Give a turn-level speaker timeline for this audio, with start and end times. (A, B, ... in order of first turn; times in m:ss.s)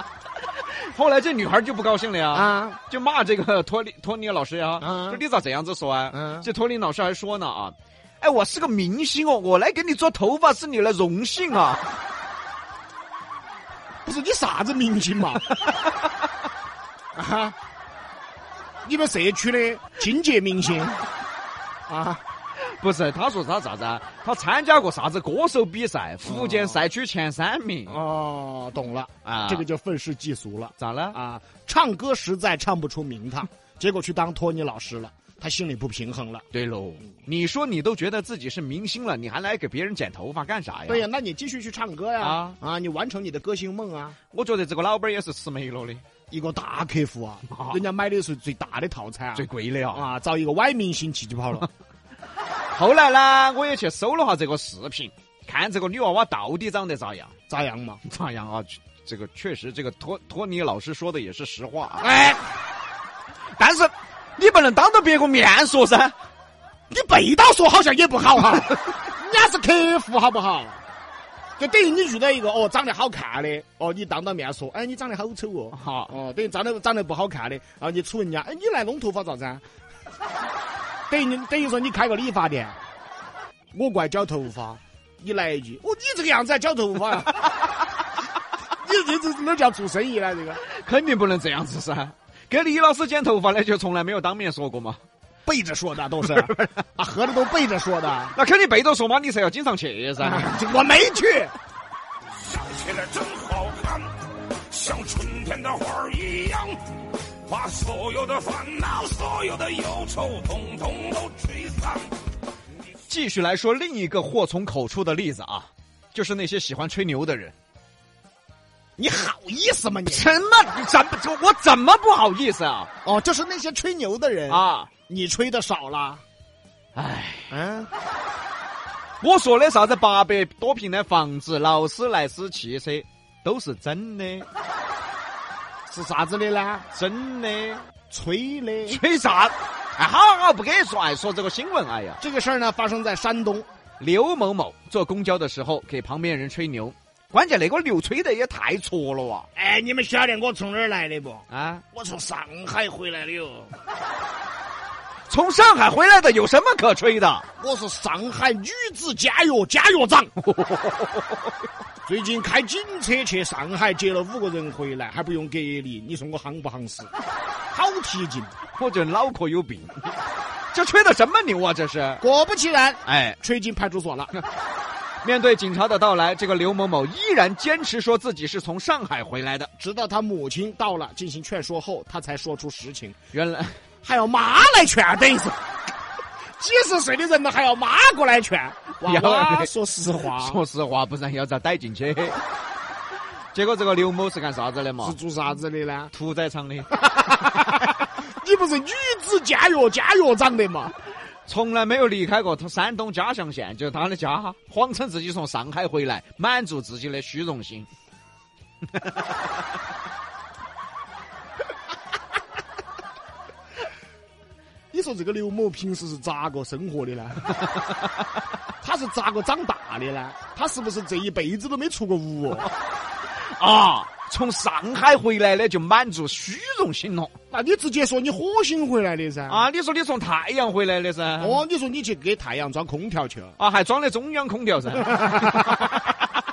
0:00.6-0:11.9 A
0:02.3-0:02.8 B
0:04.8-0:05.2 B
0:06.1-0:06.5 B
0:14.0-0:15.4 B
0:17.2-0:17.6 B
0:18.8-0:21.1 B
0:21.9-0:22.2 B
0:22.6-0:28.0 A
0:26.2-0:26.8 B
0:27.9-0:36.4 B
0:29.2-0:29.6 A
0:30.8-0:31.2 A
0:36.5-0:41.1 A
0:40.9-0:44.2 B
0:42.2-0:42.6 A
0:44.3-0:46.0 A
0:46.3-0:51.7 B
0:47.5-0:47.8 A
0:49.4-0:50.1 A
0:52.7-0:57.3 A
0:57.5-0:58.0 B
0:58.0-1:02.1 A
1:02.0-1:02.6 B
1:03.6-1:06.2 A
1:06.9-1:10.8 B
1:11.6-1:19.6 B
1:15.7-1:16.1 A
1:21.1-1:22.8 B
1:23.7-1:27.5 B
1:28.8-1:30.6 B
1:30.6-1:35.0 A
1:35.4-1:38.4 B
1:36.2-1:36.8 A
1:38.3-1:40.5 A
1:40.2-1:41.5 B
1:42.5-1:44.1 C
1:44.7-1:46.8 C
1:47.5-1:52.1 C
1:53.1-1:57.6 A
1:59.0-2:00.4 B
2:00.1-2:02.9 A
2:03.0-2:06.2 B
2:04.5-2:04.9 A
2:06.9-2:07.5 A
2:07.5-2:07.9 B
2:09.2-2:14.5 A
2:15.9-2:16.9 B
2:16.9-2:17.9 A
2:18.1-2:19.0 B
2:18.9-2:22.2 A
2:22.2-2:23.7 B
2:24.0-2:29.5 A
2:29.6-2:33.7 B
2:31.5-2:31.8 A
2:35.3-2:37.4 A
2:37.6-2:40.3 B
2:40.4-2:41.3 A
2:42.0-2:47.1 B
2:47.7-2:48.5 B
2:48.8-2:50.2 A
2:50.7-2:52.2 A
2:52.2-2:54.3 B
2:53.1-2:53.4 A
2:55.2-2:59.7 A
2:59.8-3:03.2 B
3:03.3-3:03.8 A
3:04.0-3:05.6 B
3:06.6-3:10.6 B
3:09.0-3:09.7 A
3:10.3-3:12.4 A
3:13.5-3:15.2 A
3:15.0-3:16.1 B
3:16.1-3:17.1 A
3:17.1-3:20.9 B
3:21.4-3:27.9 A
3:29.0-3:29.2 A
3:34.9-3:37.6 B
3:38.8-3:42.7 B
3:43.3-3:47.3 A
3:47.5-3:49.6 B
3:49.5-3:51.6 A
3:51.4-3:53.6 B
3:53.6-3:56.0 A
3:55.1-3:55.8 B